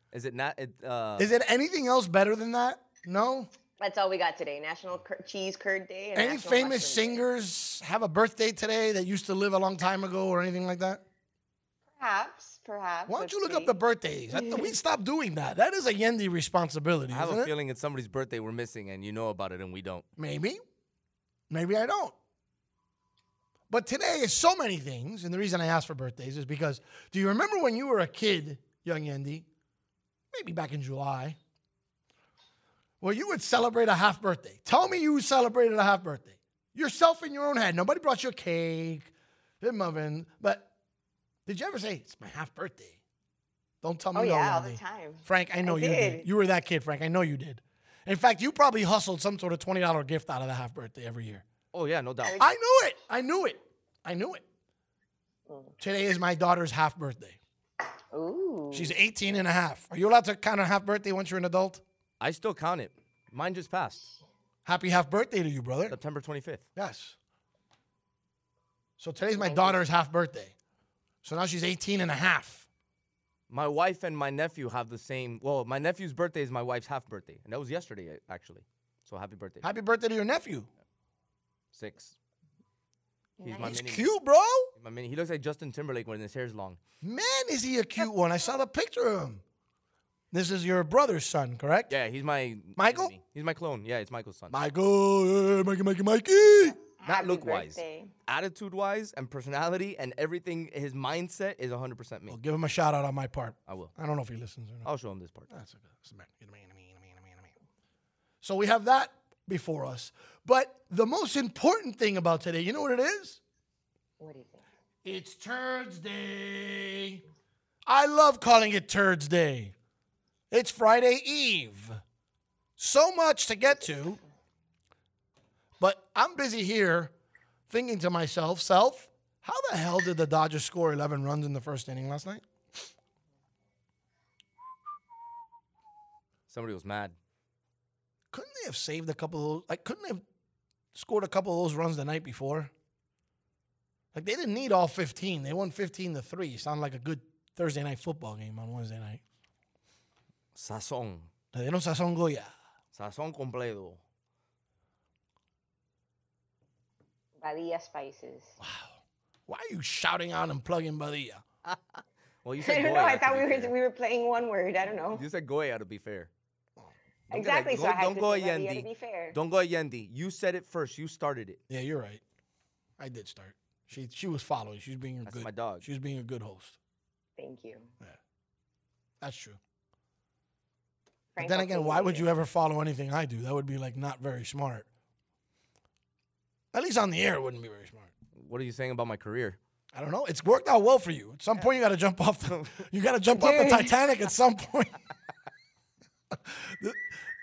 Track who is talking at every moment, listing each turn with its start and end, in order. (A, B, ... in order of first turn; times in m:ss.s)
0:00.1-0:01.3 A
0:01.2-0:03.5 B
0:03.8-0:07.2 C
0:06.1-0:11.0 B
0:12.0-0:13.8 C
0:13.1-0:17.5 B
0:17.1-0:20.0 A
0:20.2-0:20.6 B
0:21.5-0:22.1 B
0:23.7-0:29.5 B
0:30.3-0:31.4 B
0:33.0-0:40.7 B
0:41.4-0:43.0 B
0:43.8-0:51.4 B
0:44.1-0:46.2 C
0:51.7-0:52.4 A
0:52.4-0:54.4 B
0:55.5-0:55.7 C
0:55.8-0:57.4 B
0:58.1-0:59.0 C
0:58.7-1:01.8 B
1:02.2-1:04.1 A
1:04.6-1:06.0 B
1:05.9-1:06.6 A
1:06.8-1:07.2 B
1:09.0-1:10.5 B
1:11.2-1:12.7 B
1:13.5-1:19.6 A
1:19.6-1:20.7 B
1:21.7-1:22.2 A
1:23.4-1:24.1 A
1:23.5-1:24.7 B
1:24.8-1:26.8 A
1:27.0-1:29.4 B
1:30.3-1:31.9 B
1:31.9-1:34.6 A
1:32.8-1:33.1 B
1:34.5-1:36.8 B
1:36.9-1:38.1 C
1:37.0-1:42.4 A
1:42.3-1:44.9 B
1:44.8-1:45.5 A
1:45.5-1:47.5 B
1:48.4-1:53.4 B
1:54.2-1:54.6 C
1:55.0-1:57.2 B
1:57.8-1:59.7 B
2:00.5-2:02.0 B
2:02.8-2:04.2 B
2:05.8-2:07.1 B
2:07.7-2:12.4 B
2:16.5-2:17.1 A
2:18.3-2:20.2 B
2:20.9-2:22.7 B
2:24.1-2:29.2 B
2:30.5-2:31.3 A
2:31.5-2:32.5 B
2:32.9-2:34.0 A
2:37.4-2:38.5 C
2:38.6-2:41.4 B
2:42.4-2:43.7 A
2:42.6-2:45.2 C
2:45.1-2:46.3 A
2:47.3-2:49.4 C
2:47.3-2:51.6 A
2:51.7-2:52.2 B
2:53.0-2:56.8 B
2:55.2-2:55.8 A
2:57.4-2:57.9 C
2:59.2-2:59.6 B
3:01.3-3:02.3 C
3:01.4-3:04.8 B
3:06.7-3:08.1 B
3:08.4-3:09.6 A
3:09.9-3:14.9 B
3:13.4-3:13.8 C
3:16.3-3:17.0 B